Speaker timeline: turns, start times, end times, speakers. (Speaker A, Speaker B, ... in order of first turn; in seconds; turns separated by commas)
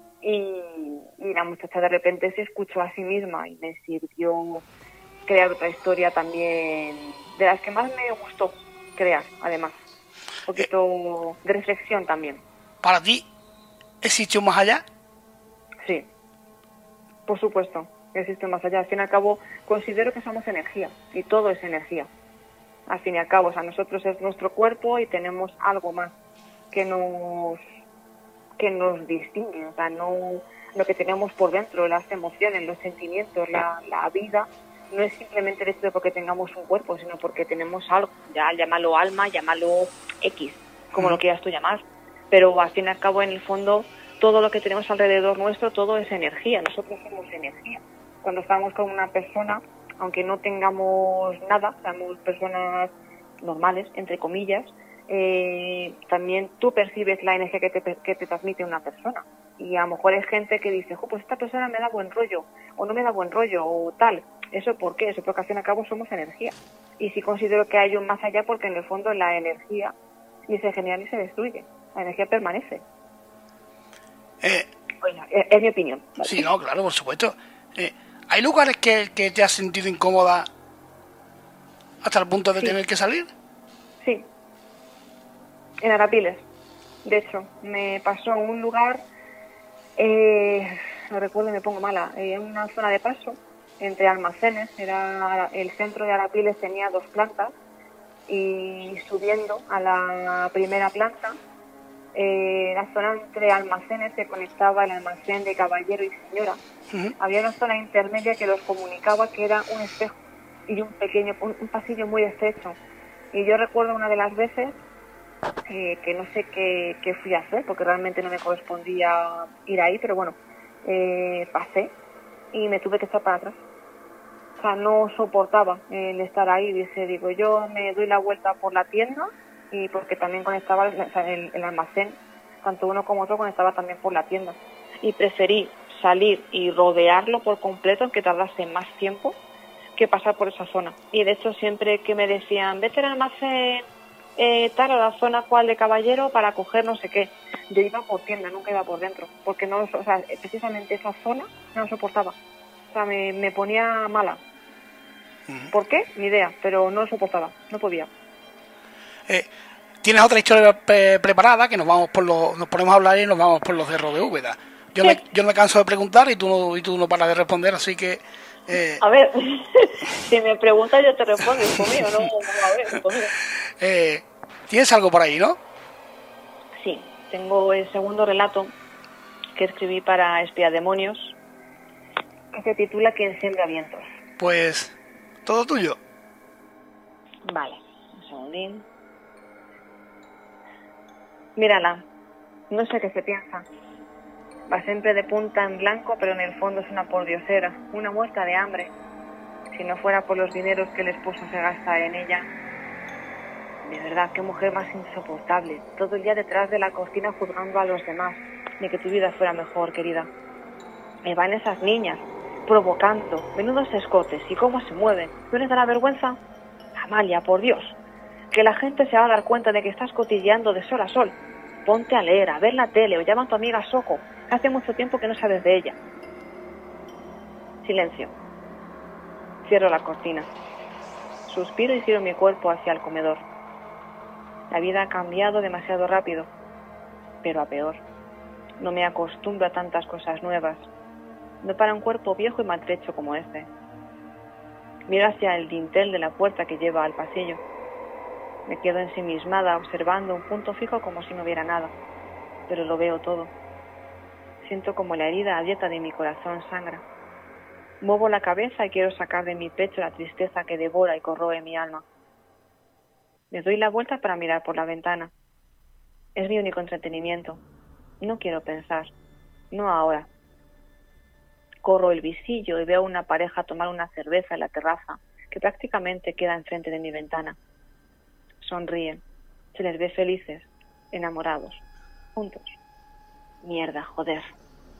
Speaker A: 0.2-4.7, Speaker A: 5.3-9.8, Speaker A: 10.4-12.4, Speaker B: 12.8-13.3, Speaker B: 14.0-14.8, Speaker A: 15.8-16.1, Speaker A: 17.3-22.1, Speaker A: 22.9-26.1, Speaker A: 26.7-27.6, Speaker A: 28.6-69.9, Speaker A: 70.5-72.8, Speaker B: 74.4-74.7, Speaker A: 75.0-76.5, Speaker B: 76.2-80.5, Speaker B: 82.0-83.3, Speaker A: 84.0-84.3, Speaker A: 85.8-86.5, Speaker A: 87.0-89.0, Speaker A: 90.0-97.5, Speaker A: 98.3-101.4, Speaker A: 102.1-106.6, Speaker A: 107.2-110.1, Speaker A: 110.7-112.8, Speaker A: 113.3-114.8, Speaker A: 115.7-122.0, Speaker A: 122.5-123.6, Speaker A: 124.6-139.4, Speaker A: 139.9-143.8, Speaker A: 144.4-152.4, Speaker A: 152.9-154.4, Speaker A: 155.7-158.1, Speaker B: 160.0-169.0, Speaker A: 169.0-173.4, Speaker B: 173.8-175.6, Speaker A: 176.8-178.7, Speaker A: 179.6-181.3, Speaker A: 182.5-184.1, Speaker B: 184.4-186.0, Speaker A: 187.4-188.9, Speaker A: 191.6-192.0, Speaker A: 192.7-193.6, Speaker A: 194.7-198.9, Speaker A: 199.7-202.5, Speaker A: 203.8-210.3, Speaker A: 211.2-216.4, Speaker A: 216.9-218.0, Speaker A: 218.5-226.0, Speaker A: 227.8-228.3, Speaker A: 229.6-230.5, Speaker A: 231.4-233.4, Speaker A: 234.7-236.5, Speaker A: 237.4-238.0, Speaker A: 238.8-240.9, Speaker A: 241.6-243.7, Speaker A: 245.1-247.6, Speaker A: 248.7-251.9, Speaker A: 252.7-253.5, Speaker A: 254.6-257.0, Speaker A: 258.0-262.0, Speaker A: 263.5-265.3, Speaker A: 266.4-267.6, Speaker A: 268.2-269.1, Speaker A: 269.7-270.3, Speaker A: 271.8-277.6, Speaker A: 278.6-279.2, Speaker A: 279.7-281.8, Speaker A: 282.4-282.8, Speaker A: 283.6-284.5